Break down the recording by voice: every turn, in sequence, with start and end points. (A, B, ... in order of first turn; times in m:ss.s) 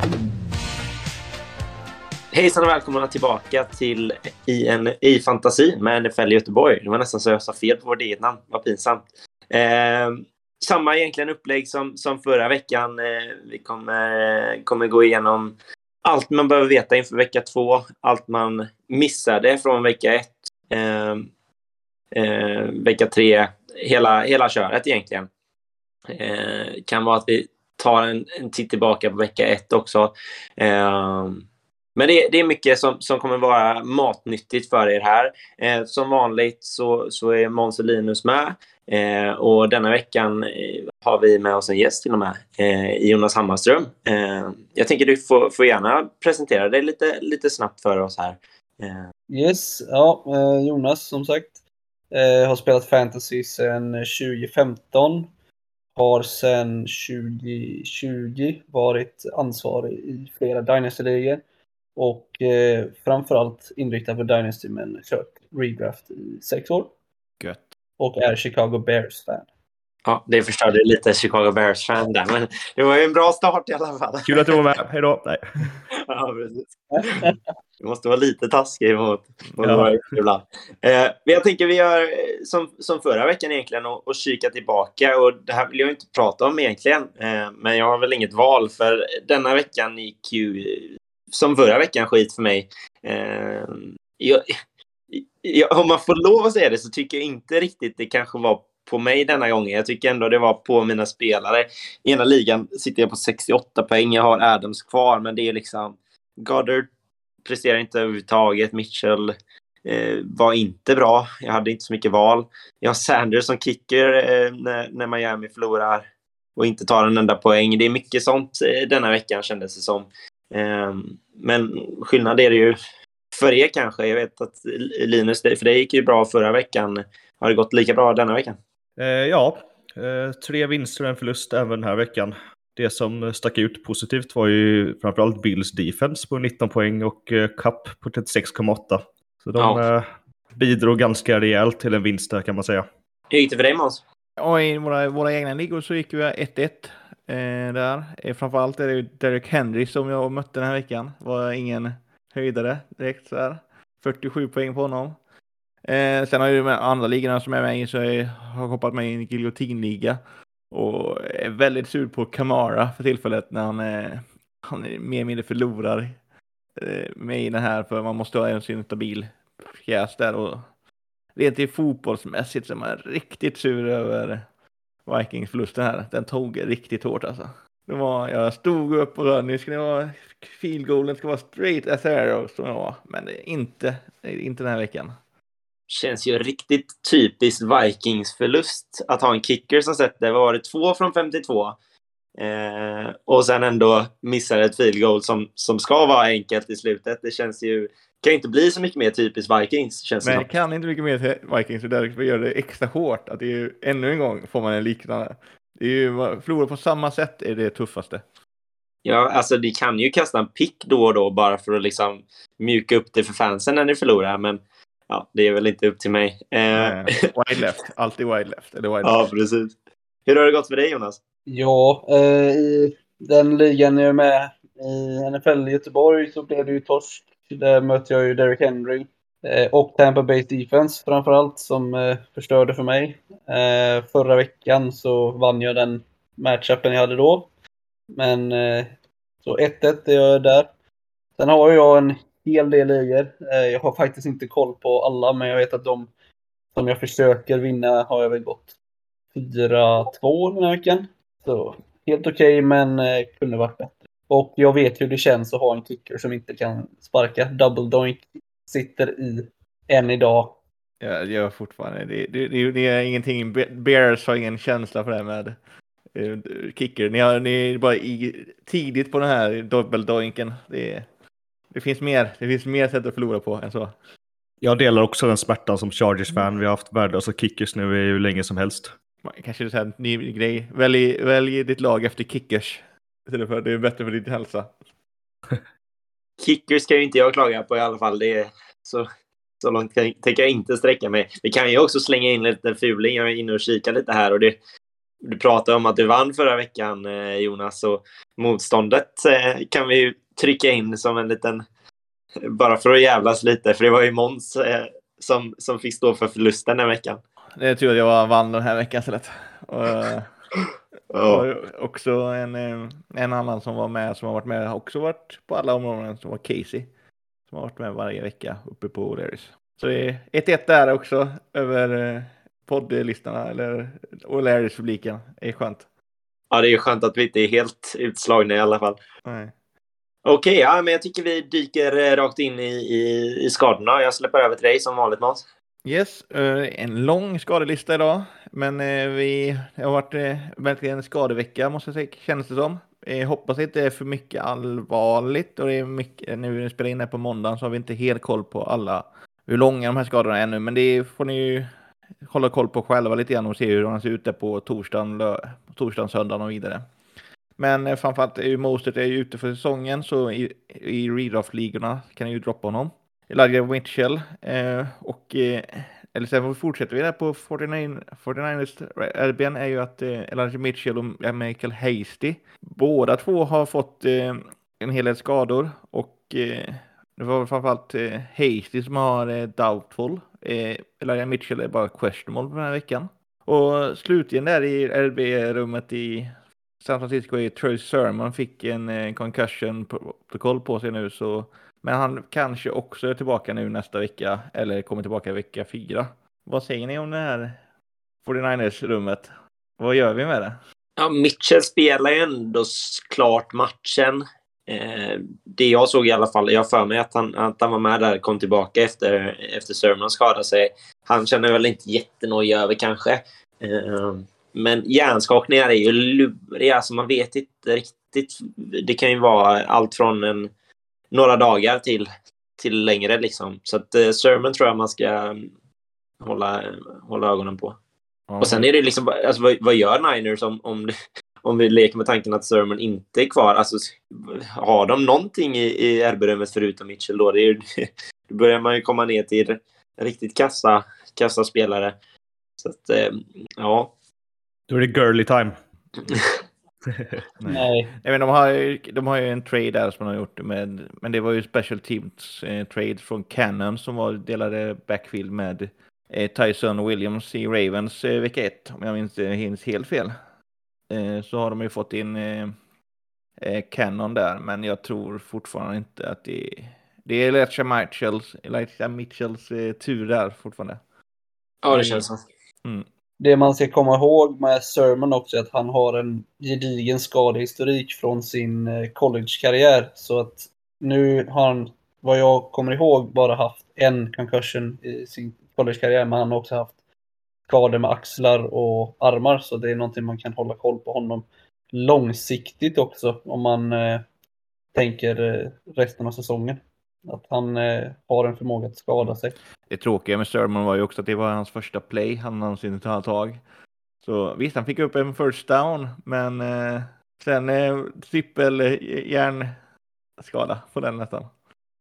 0:02.3-0:21.3 A
0:22.1-0:25.3 A
0:26.1-0:31.4 A
0:32.0-0:49.0 A
0:49.3-0:51.5 B
0:52.1-0:55.3 B
0:56.0-1:01.4 B
1:02.0-1:06.9 B
1:08.0-1:09.4 B
1:10.0-1:14.6 A
1:14.2-1:15.8 C
1:16.0-1:34.4 A
1:16.9-1:17.4 B
1:19.5-1:19.8 D
1:35.1-1:46.9 A
1:47.4-1:49.3 A
1:49.8-2:02.8 A
2:03.3-2:08.6 A
2:09.0-2:22.9 C
2:19.6-2:19.8 A
2:23.3-2:24.0 A
2:24.4-2:35.2 D
2:35.8-2:40.2 D
2:40.7-2:46.2 D
2:46.8-2:50.6 D
2:51.4-2:54.5 D
2:55.1-3:05.2 D
3:05.9-3:11.8 A
3:12.4-3:20.5 A
3:20.2-3:28.2 D
3:29.0-3:37.2 A
3:36.8-3:39.2 D
3:39.0-3:39.8 A
3:40.3-3:41.2 A
3:41.5-3:57.5 B
3:58.2-4:00.7 B
4:01.4-4:06.1 B
4:06.7-4:08.7 B
4:09.3-4:20.6 B
4:21.0-4:25.6 D
4:26.1-4:31.1 D
4:31.7-4:33.9 D
4:34.6-4:38.9 C
4:39.2-4:44.8 D
4:46.4-4:49.1 A
4:49.6-4:54.6 A
4:55.2-5:01.6 A
5:02.4-5:07.2 A
5:07.6-5:10.3 D
5:11.1-5:11.4 A
5:11.3-5:16.9 D
5:17.5-5:25.8 D
5:26.5-5:29.0 A
5:29.2-5:29.5 D
5:30.2-5:35.4 A
5:35.8-5:51.7 D
5:52.2-5:56.8 D
5:57.6-6:37.6 D
6:38.2-6:40.6 D
6:41.0-7:00.5 A
7:01.1-7:02.1 A
7:02.6-7:05.5 A
7:06.2-7:07.8 A
7:08.3-7:08.7 D
7:08.4-7:10.9 A
7:11.4-7:21.9 A
7:22.6-7:23.9 A
7:24.7-7:25.6 C
7:27.4-7:40.1 D
7:27.5-7:27.9 B
7:40.9-7:42.6 D
7:43.4-7:50.8 D
7:51.6-7:52.2 A
7:51.7-7:52.0 D
7:53.2-8:06.7 B
8:07.5-8:14.0 B
8:14.7-8:19.4 B
8:19.7-8:23.4 D
8:24.0-8:29.5 D
8:30.2-8:31.3 D